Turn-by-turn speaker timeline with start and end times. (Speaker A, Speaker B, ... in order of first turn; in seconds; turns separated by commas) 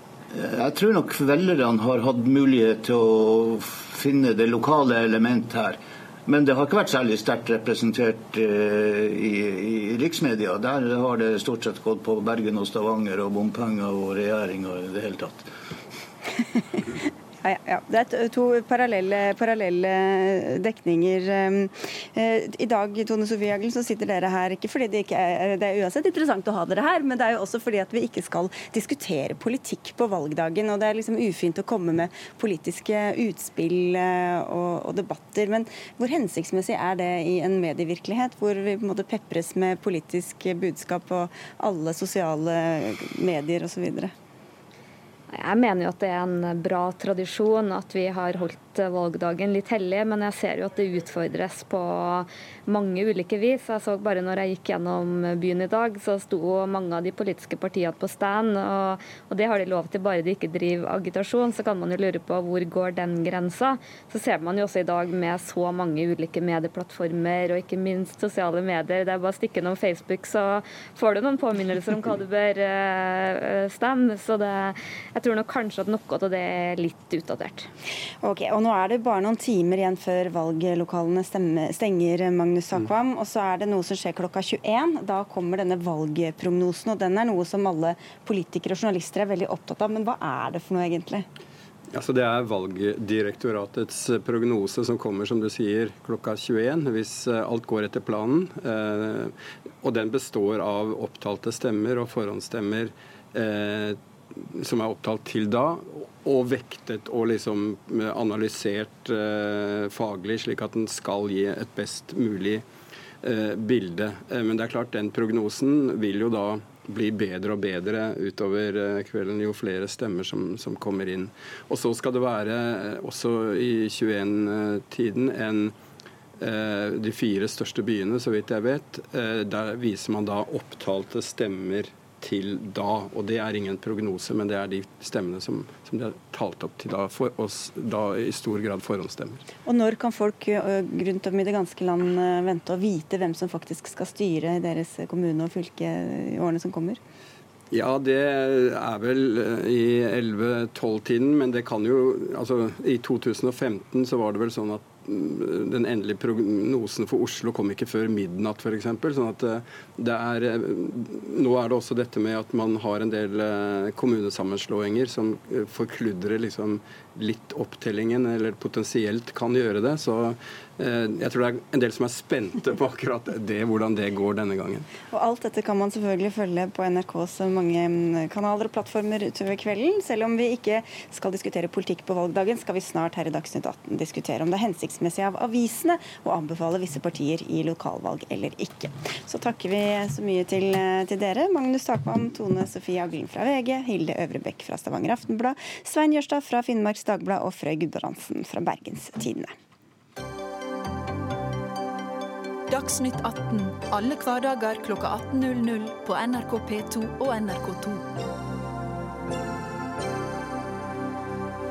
Speaker A: 0.3-15.5, Speaker B: 17.4-44.1, Speaker C: 45.3-77.7, Speaker B: 78.2-91.2, Speaker D: 91.9-112.7, Speaker D: 113.2-125.8, Speaker D: 126.4-139.4, Speaker B: 139.7-147.0, Speaker D: 147.7-174.9, Speaker B: 175.1-199.5, Speaker E: 202.7-208.1